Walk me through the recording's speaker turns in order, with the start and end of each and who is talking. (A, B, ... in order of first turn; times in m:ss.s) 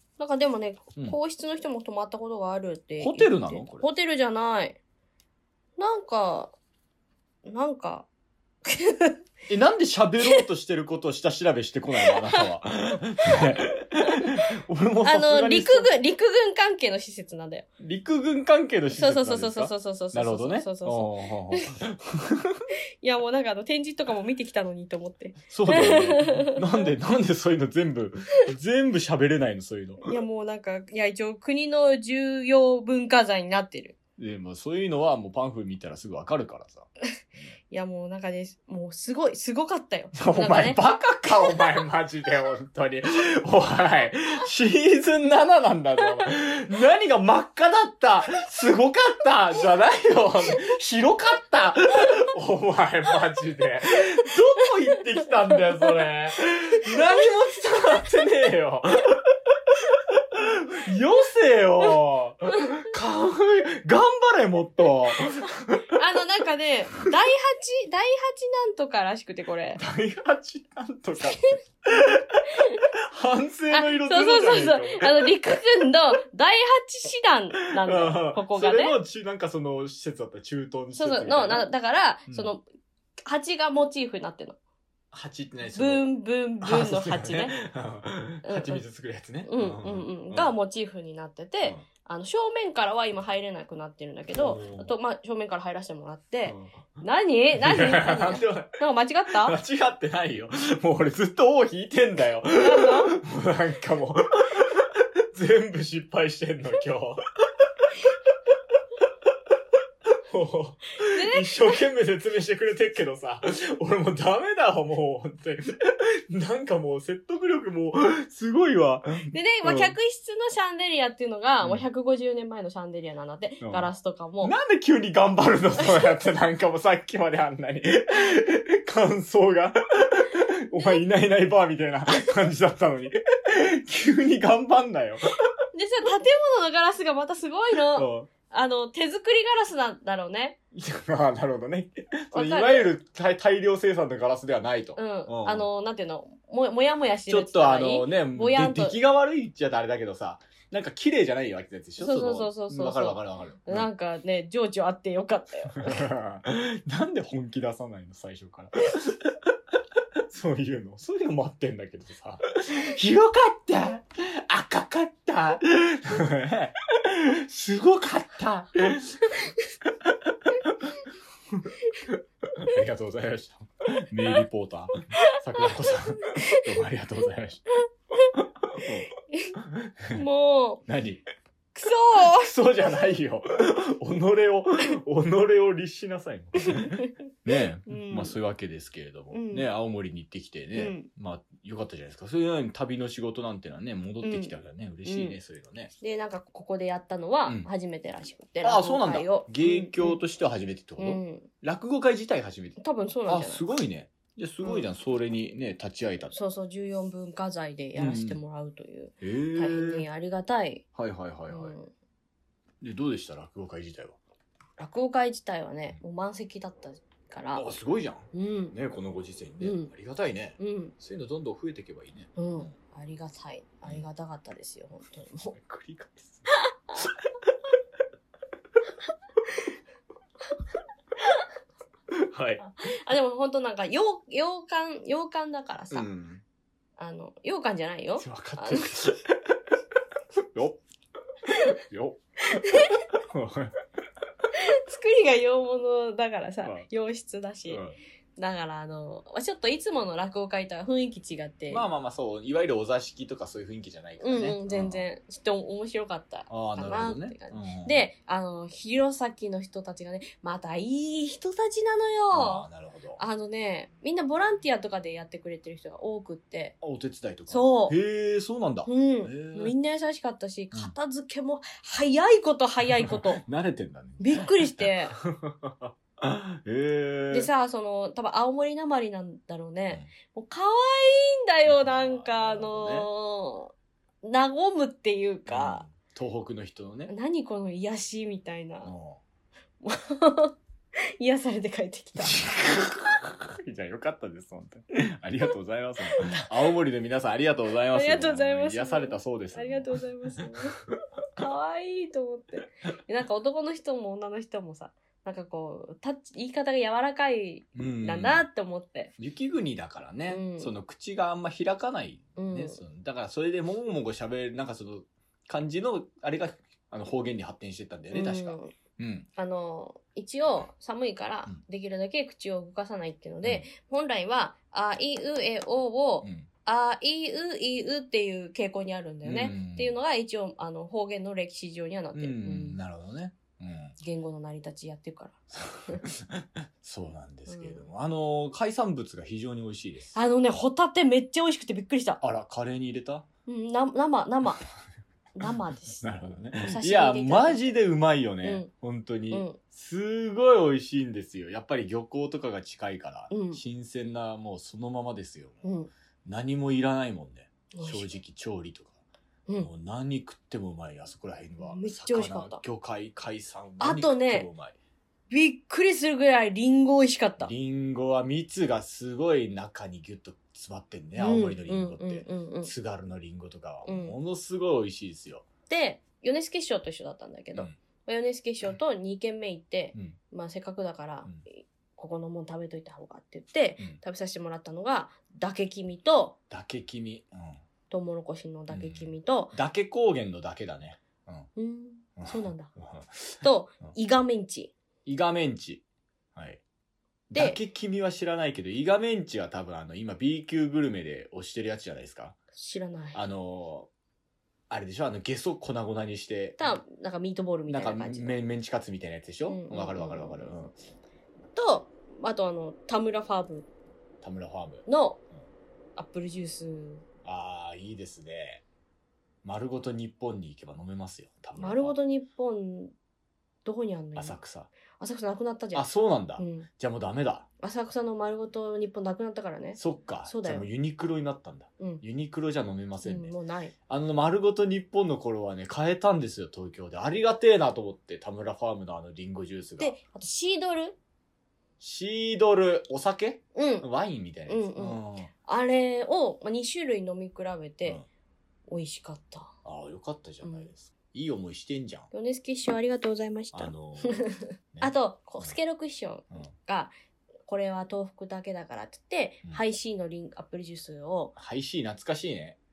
0:00.2-0:04.8 A
0:03.0-0:03.9 B
0:05.8-0:06.6 A
0:07.4-0:08.1 A
0:08.6-0:09.2 A
0:09.5-0:15.9 B
0:12.1-0:12.4 A
0:14.1-0:14.4 A
0:15.0-0:17.7 A
0:17.8-0:22.6 B
0:18.9-0:21.7 A
0:23.0-0:26.6 A
0:25.5-0:30.1 B
0:30.0-0:34.0 A
0:34.2-0:37.5 B
0:37.7-0:40.9 A
0:40.2-1:05.9 B
0:57.0-0:57.2 A
1:05.9-1:09.8 A
1:09.8-1:15.3 B
1:13.7-1:19.0 A
1:17.7-1:21.7 B
1:21.0-1:22.6 A
1:23.2-1:24.6 A
1:25.1-1:26.1 B
1:25.8-1:27.6 A
1:26.6-1:30.5 B
1:28.5-1:28.8 A
1:29.4-1:39.6 A
1:34.3-1:34.9 B
1:36.4-1:37.0 B
1:37.6-1:38.8 B
1:39.3-1:47.2 B
1:42.6-1:43.1 A
1:50.3-1:59.9 B
1:51.0-1:51.8 A
1:59.3-2:04.5 A
2:03.6-2:03.9 B
2:04.4-2:15.4 B
2:10.7-2:11.0 A
2:15.7-2:20.6 A
2:17.9-2:18.3 B
2:20.7-2:25.7 B
2:22.3-2:22.9 A
2:25.0-2:29.0 A
2:27.3-2:33.9 B
2:32.0-2:36.1 A
2:35.7-2:39.5 B
2:40.3-2:57.6 B
2:55.3-2:56.8 A
2:58.4-3:00.2 B
3:00.1-3:00.8 A
3:00.9-3:01.2 B
3:01.8-3:02.5 A
3:02.2-3:15.9 B
3:06.7-3:07.1 A
3:07.9-3:08.4 A
3:09.3-3:09.7 A
3:10.8-3:11.1 A
3:14.2-3:14.5 A
3:15.1-3:15.4 A
3:16.0-3:20.2 A
3:18.6-3:26.3 B
3:21.0-3:21.5 A
3:22.8-3:23.6 A
3:24.6-3:24.9 A
3:26.3-3:30.8 A
3:28.0-3:28.4 B
3:29.2-3:30.0 B
3:31.0-3:31.8 B
3:31.5-3:31.9 A
3:32.8-3:34.2 B
3:34.8-3:37.7 A
3:37.5-3:42.7 B
3:38.3-3:38.8 A
3:39.6-3:39.9 A
3:40.6-3:40.9 A
3:42.4-3:45.6 A
3:45.5-3:46.4 B
3:46.7-3:47.0 A
3:47.0-3:47.5 B
3:52.1-3:52.6 B
3:52.8-3:56.1 A
3:55.9-3:56.4 B
3:57.0-3:58.9 A
3:58.2-3:59.6 B
4:00.5-4:00.8 B
4:01.5-4:03.8 B
4:02.5-4:03.0 A
4:04.6-4:07.8 A
4:07.7-4:08.0 B
4:08.4-4:11.9 A
4:11.7-4:15.0 B
4:14.2-4:22.7 A
4:16.5-4:18.1 B
4:22.3-4:23.2 B
4:23.2-4:26.8 A
4:26.8-4:29.7 B
4:27.5-4:28.0 A
4:28.9-4:33.4 A
4:33.1-4:37.5 B
4:34.2-4:35.2 A
4:37.3-4:43.7 A
4:41.7-4:43.1 B
4:44.2-4:45.8 A
4:45.5-4:47.1 B
4:47.1-4:48.9 A
4:48.8-4:49.2 B
4:49.8-4:52.5 A
4:52.2-5:00.0 B
4:56.1-4:56.6 A
4:57.9-5:00.8 A
5:01.4-5:09.1 A
5:07.8-5:08.4 B
5:09.2-5:19.3 B
5:10.3-5:10.7 A
5:12.4-5:12.8 A
5:18.1-5:18.7 A
5:19.4-5:32.8 A
5:26.2-5:26.5 B
5:29.2-5:29.9 B
5:32.1-5:34.0 B
5:34.0-5:36.0 A
5:35.5-5:40.2 B
5:37.5-5:37.9 A
5:40.1-5:42.2 A
5:42.2-5:43.3 B
5:43.5-5:44.6 A
5:45.4-5:47.7 A
5:46.0-5:55.6 B
5:48.4-5:48.7 A
5:49.3-5:49.6 A
5:53.3-5:53.6 A
5:55.6-5:55.9 A
5:56.2-5:59.0 B
5:57.7-5:58.1 A
5:59.6-6:04.8 B
6:01.6-6:02.6 A
6:03.8-6:04.5 A
6:05.3-6:07.5 A
6:07.4-6:15.5 B
6:11.2-6:12.7 A
6:13.8-6:14.2 A
6:15.7-6:26.4 A
6:26.5-6:27.6 B
6:27.9-6:29.6 A
6:28.7-6:31.5 B
6:31.6-6:32.7 A
6:32.2-6:33.9 B
6:33.4-6:34.7 A
6:35.1-6:35.8 B
6:36.4-6:36.6 B
6:37.3-6:42.4 B
6:42.6-6:43.2 A
6:43.1-6:43.9 B
6:44.7-6:46.8 B
6:46.6-6:48.4 A
6:47.7-6:50.8 B
6:49.5-6:50.5 A
6:51.6-6:53.7 A
6:54.2-6:54.9 B
6:54.9-6:55.2 A
6:56.0-6:57.0 A
6:57.2-6:58.6 B
6:59.4-7:02.0 B
7:01.6-7:02.9 A
7:03.6-7:04.4 A
7:04.2-7:04.7 B
7:05.0-7:06.7 A
7:05.7-7:07.5 B
7:07.6-7:10.7 A
7:09.8-7:13.4 B
7:13.0-7:13.7 A
7:13.9-7:20.0 B
7:19.8-7:21.0 A
7:21.8-7:25.3 B
7:23.6-7:23.9 A
7:24.5-7:28.0 A
7:28.7-7:29.6 A
7:29.6-7:32.1 B
7:30.4-7:30.7 A
7:32.1-7:36.9 A
7:33.5-7:35.6 B
7:37.5-7:41.3 A
7:41.4-7:42.6 B